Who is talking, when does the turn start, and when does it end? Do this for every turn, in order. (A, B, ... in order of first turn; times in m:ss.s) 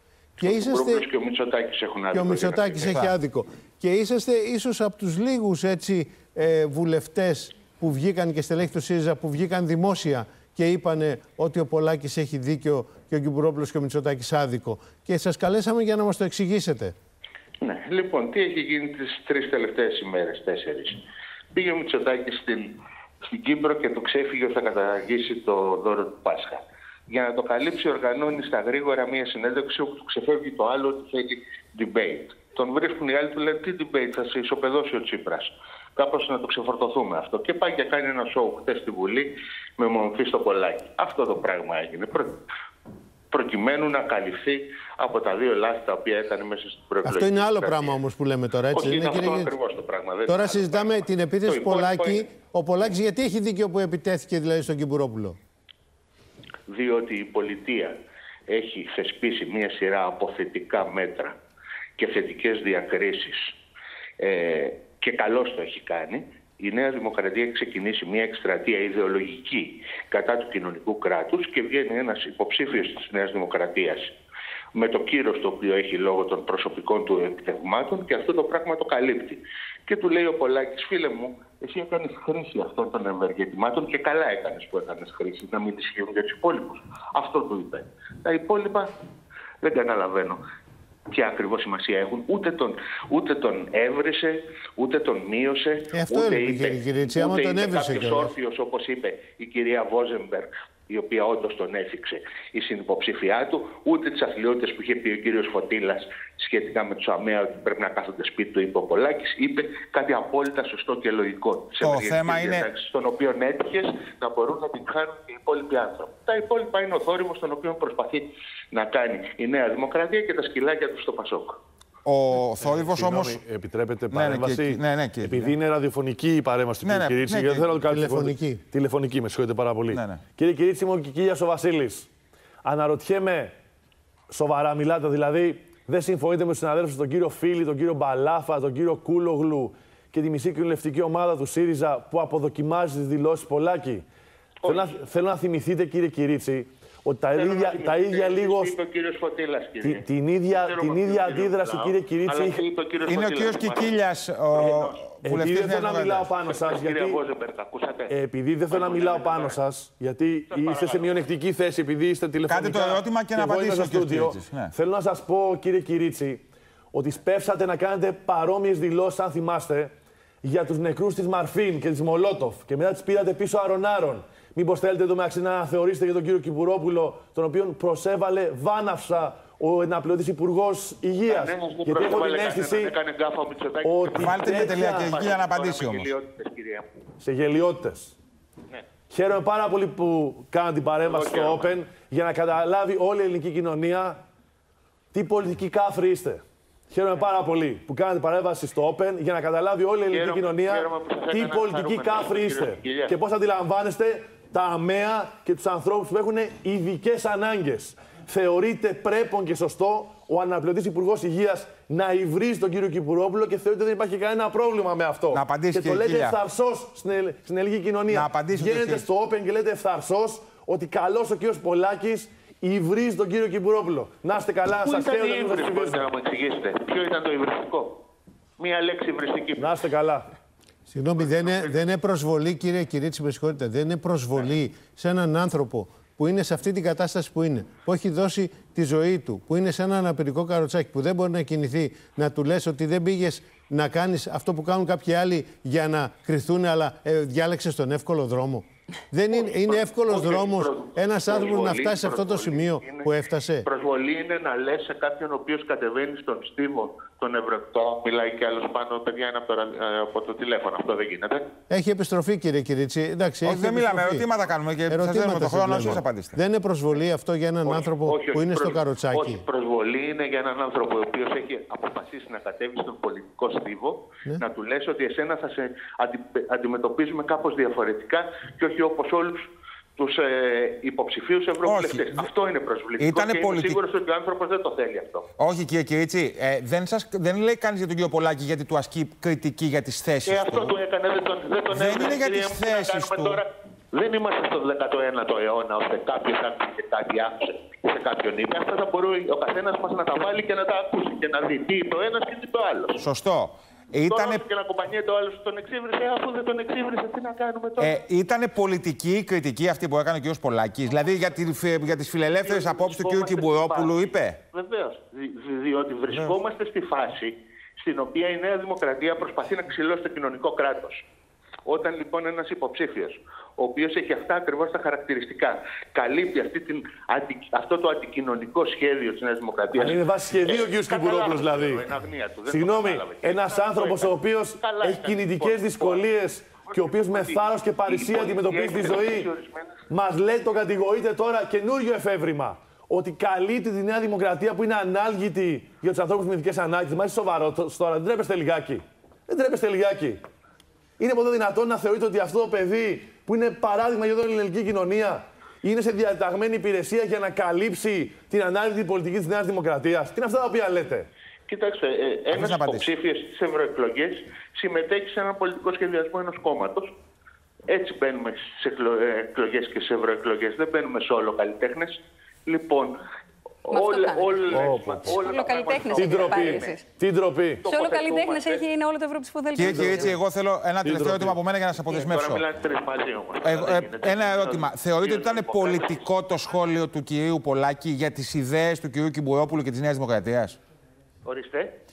0:00.4-0:02.9 A
0:00.4-0:01.0 B
0:02.1-0:16.9 B
0:02.8-0:03.1 C
0:17.6-0:21.0 A
0:21.5-0:42.4 A
0:43.3-0:48.0 A
0:47.0-0:49.5 B
0:48.7-0:52.2 A
0:50.3-0:55.4 B
0:56.7-0:57.9 A
0:58.5-1:01.4 A
1:02.0-1:03.4 A
1:04.2-1:14.1 A
1:14.7-1:28.9 A
1:29.6-1:30.4 A
1:31.1-2:01.6 A
1:35.9-1:38.3 B
1:51.8-1:52.7 C
2:02.0-2:03.4 C
2:02.8-2:12.1 D
2:04.1-2:05.5 C
2:06.8-2:07.7 C
2:07.8-2:08.6 B
2:09.9-2:10.2 C
2:12.6-2:13.5 D
2:14.3-2:24.0 D
2:24.6-2:25.0 A
2:24.6-2:28.7 D
2:27.3-2:34.0 A
2:29.8-2:32.6 D
2:33.0-2:36.3 C
2:34.5-2:35.0 A
2:35.2-2:37.2 D
2:36.4-2:38.1 A
2:38.1-2:49.9 D
2:38.7-2:39.6 A
2:40.5-2:41.2 A
2:42.5-2:44.7 C
2:50.4-3:02.9 D
3:01.3-3:06.9 A
3:03.8-3:05.2 D
3:04.2-3:06.1 C
3:07.2-3:08.2 D
3:09.1-3:14.2 D
3:11.0-3:11.7 A
3:15.1-3:46.0 D
3:20.1-3:23.2 A
3:35.3-3:36.4 C
3:38.1-3:39.0 C
3:44.8-3:48.0 A
3:48.6-3:49.8 A
3:49.6-3:50.3 D
3:50.9-4:13.7 B
4:09.3-4:13.1 A
4:13.6-4:21.4 A
4:21.7-4:24.3 B
4:23.4-4:26.4 C
4:24.9-4:29.4 B
4:27.6-4:39.4 A
4:40.0-4:45.3 A
4:41.6-4:42.1 C
4:43.0-4:43.8 C
4:45.4-4:50.8 C
4:50.2-5:03.0 A
4:51.7-4:53.4 C
5:03.0-5:04.4 C
5:04.1-5:07.9 A
5:07.8-5:14.4 C
5:12.4-5:21.0 A
5:21.6-5:36.1 A
5:29.7-5:31.8 D
5:32.5-5:39.3 D
5:36.6-5:39.8 A
5:39.9-5:50.2 D
5:51.0-6:01.1 D
6:01.5-6:06.9 A
6:02.3-6:02.9 C
6:07.7-6:11.9 A
6:12.4-6:13.0 A
6:13.7-6:16.8 A
6:13.7-6:16.8 E
6:14.5-6:15.2 D
6:15.9-6:17.6 D
6:17.6-6:18.7 A
6:17.6-6:20.1 E
6:19.6-6:20.2 D
6:19.6-6:22.4 C
6:20.8-6:21.4 D
6:21.8-6:26.1 A
6:23.4-6:30.6 C
6:31.2-6:31.7 A